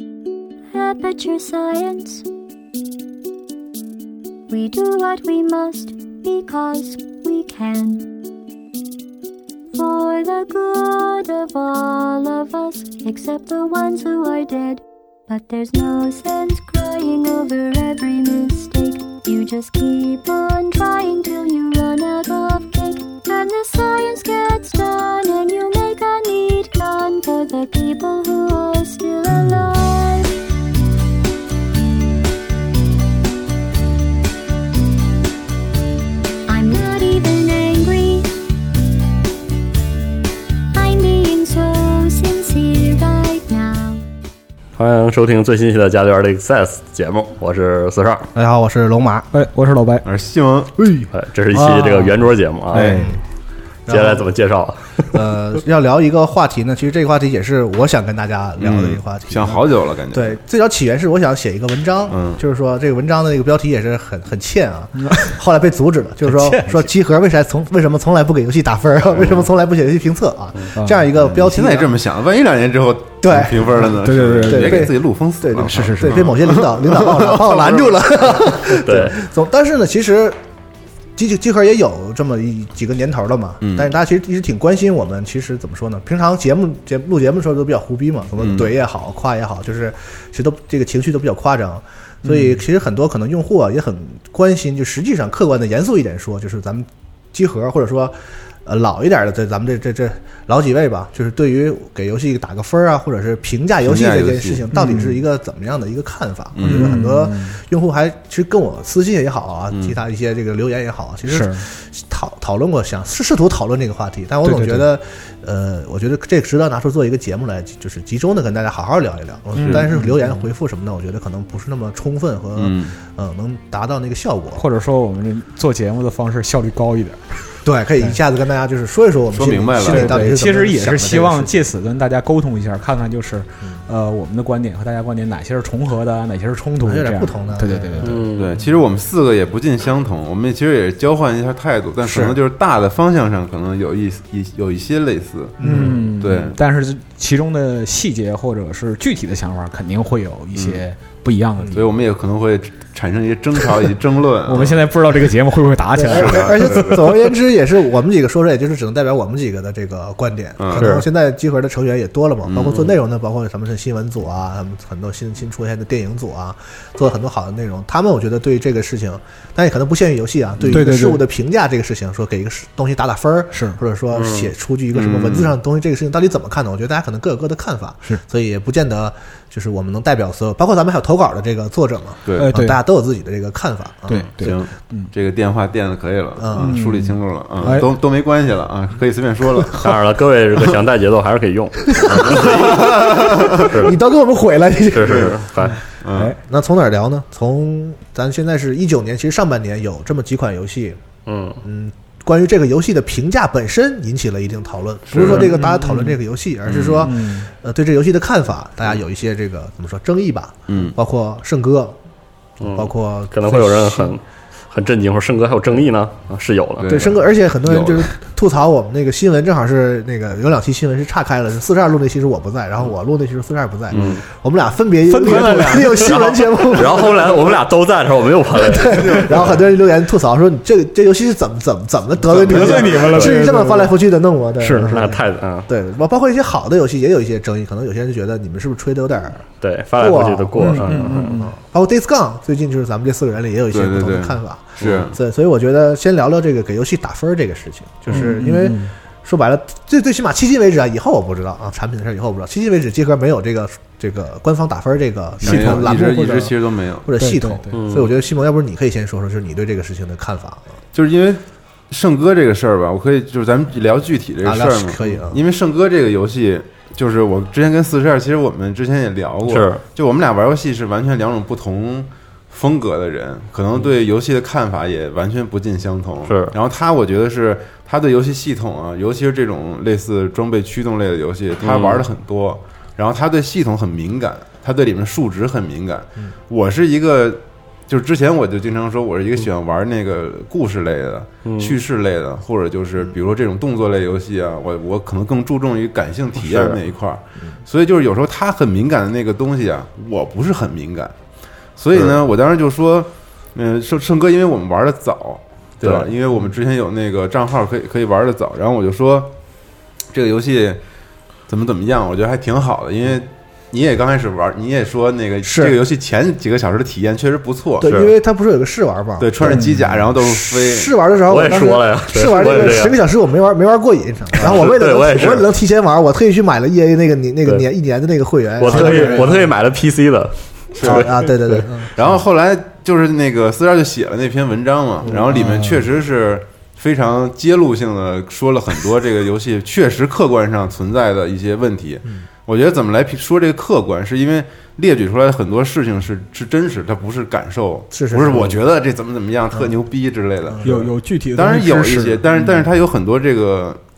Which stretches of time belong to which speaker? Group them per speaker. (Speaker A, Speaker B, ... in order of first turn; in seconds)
Speaker A: 0.7-2.3, 4.5-8.1, 9.7-30.3, 36.5-38.3, 40.7-44.0
Speaker B: 44.8-48.3, 51.1-53.1, 53.9-55.2, 78.7-79.2, 138.0-138.6, 145.7-146.0, 160.8-161.1, 162.6-162.9, 174.1-174.5, 189.8-193.0, 193.5-194.0, 194.9-195.8, 201.3-201.6, 212.6-217.1, 223.9-224.2, 225.3-229.5, 232.5-233.5, 234.8-235.7, 239.6-241.4, 257.7-258.1, 269.5-269.8, 276.2-276.6, 281.6-282.1, 291.4-291.8, 296.4-296.8, 305.8-306.1, 317.8-318.1, 321.3-323.0, 324.4-325.5, 328.6-331.7
Speaker C: 48.4-49.3, 52.8-53.2, 53.9-54.2, 55.1-71.9, 73.2-73.9, 74.5-80.4, 81.2-124.6, 127.6-131.6, 136.8-138.2, 142.0-142.4, 145.6-146.0, 156.0-184.3, 186.4-186.8, 191.9-195.4, 196.3-201.0, 201.6-212.0, 212.6-214.1, 216.9-227.5, 228.5-239.4, 240.0-260.6, 264.4-265.4, 315.4-315.8, 317.8-329.5, 330.8-332.2, 335.1-335.3, 347.9-348.6, 350.5-350.9
Speaker D: 49.3-50.1, 50.8-52.2, 52.7-53.1, 65.0-65.4, 66.2-66.9, 70.8-71.1, 73.7-74.9, 75.6-76.3, 92.2-92.6, 104.7-105.2, 106.6-107.6, 111.3-111.7, 114.4-114.8, 119.6-120.4, 124.6-127.2, 129.8-138.2, 145.6-151.8, 154.5-157.1, 170.7-171.2, 173.5-173.8, 182.3-182.8, 184.1-185.1, 186.6-187.9, 195.7-196.4, 205.2-206.2, 207.0-207.5, 225.1-226.1, 232.5-234.0, 234.6-234.9, 240.6-241.5, 248.1-248.9, 255.4-256.1, 257.2-257.7, 319.5-319.9, 328.7-329.4, 335.3-335.8, 350.6-352.2
Speaker E: 50.0-50.7, 52.7-53.1, 58.6-60.4, 62.1-62.4, 69.2-69.4, 71.1-78.5, 83.6-83.9, 88.4-88.7, 103.8-104.7, 106.6-106.9, 109.7-110.0, 122.6-122.9, 129.3-130.3, 138.4-145.6, 146.2-146.6, 150.5-150.8, 151.7-154.9, 156.1-157.1, 160.6-161.0, 162.5-162.8, 174.9-175.6, 182.3-182.5, 184.4-189.8, 192.1-193.8, 196.0-196.3, 205.1-205.5, 206.7-207.1, 210.7-211.0, 216.8-218.1, 228.9-229.6, 232.3-233.1, 243.7-245.2, 255.4-257.1, 260.9-301.1, 301.8-309.3, 310.1-310.8, 311.5-317.9, 319.2-320.9, 330.8-331.1, 331.9-350.7, 351.3-353.8